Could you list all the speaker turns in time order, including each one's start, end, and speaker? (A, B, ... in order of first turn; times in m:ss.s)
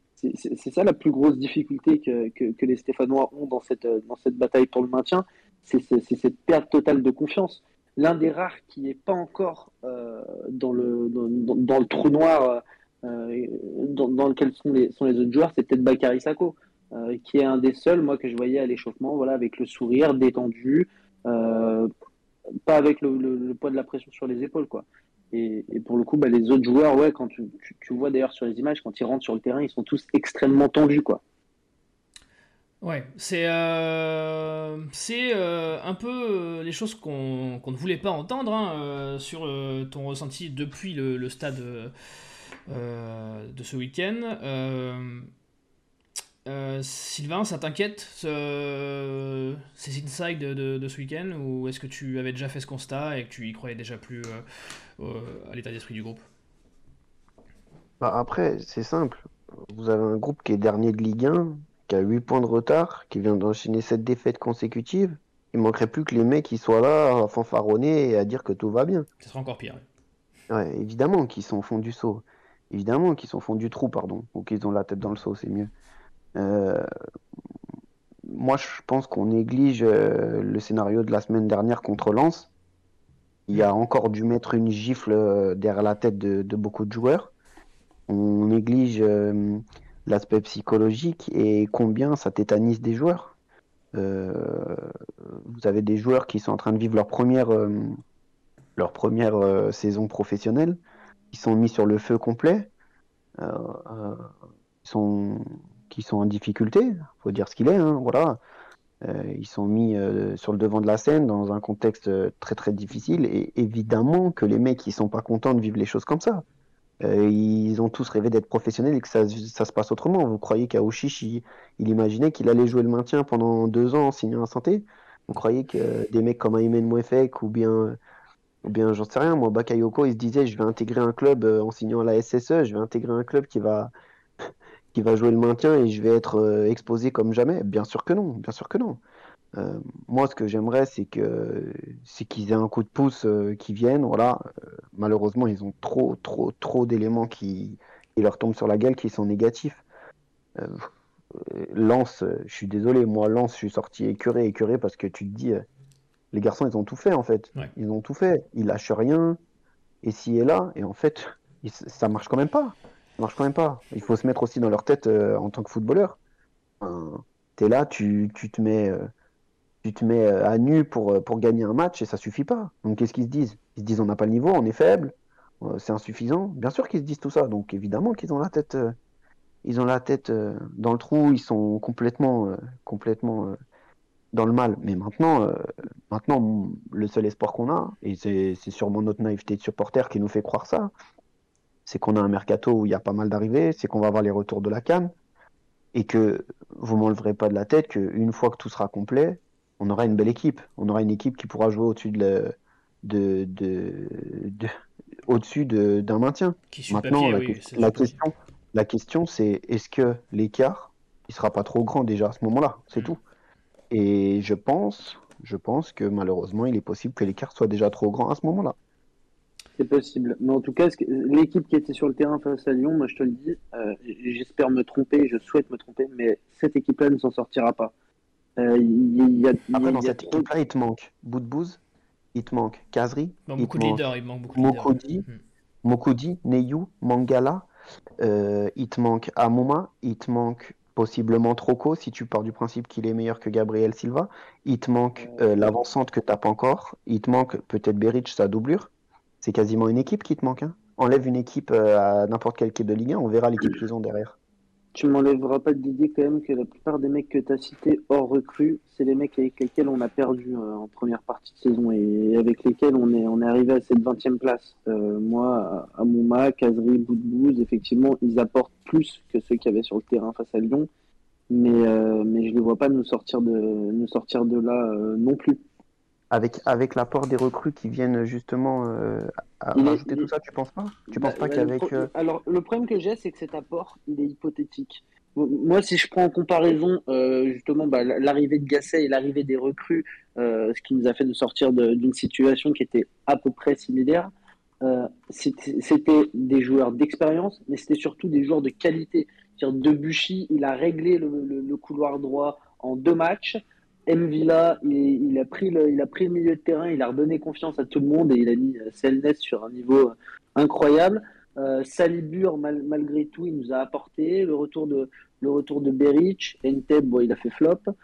0:00.2-0:21.9 A
0:22.6-0:31.2 A
0:32.8-0:41.9 B
0:42.7-0:45.3 B
0:46.4-0:54.4 B
0:55.0-0:56.2 B
0:58.0-1:09.1 C
1:09.2-1:09.8 B
1:10.5-1:15.7 C
1:16.4-1:16.8 C
1:18.3-1:22.5 C
1:23.5-1:27.3 C
1:28.1-1:33.3 C
1:33.9-1:38.0 C
1:38.8-1:40.8 C
1:41.3-1:42.7 C
1:43.4-1:44.3 C
1:44.8-1:48.4 C
1:49.0-1:56.4 C
1:57.0-2:08.0 C
2:08.6-2:13.9 C
2:14.4-2:19.0 C
2:19.5-2:24.4 C
2:24.9-2:29.8 C
2:30.6-2:35.6 C
2:36.3-2:39.4 C
2:40.0-2:46.2 C
2:46.8-2:49.0 C
2:49.8-2:58.9 C
2:59.6-3:03.5 C
3:04.3-3:10.9 C
3:11.8-3:15.1 C
3:15.9-3:24.7 C
3:25.3-3:33.2 C
3:26.7-3:28.2 B
3:33.9-3:38.7 C
3:39.8-3:47.9 A
3:48.6-3:50.4 A
3:49.7-3:51.8 C
3:52.3-3:55.2 C
3:53.5-3:55.4 B
3:55.8-3:57.7 C
3:58.2-4:08.9 C
4:05.2-4:05.8 A
4:09.4-4:14.3 C
4:14.9-4:30.9 A
4:31.5-4:35.6 A
4:36.3-4:42.1 C
4:39.7-4:40.3 A
4:41.1-4:54.3 A
4:54.8-5:17.8 A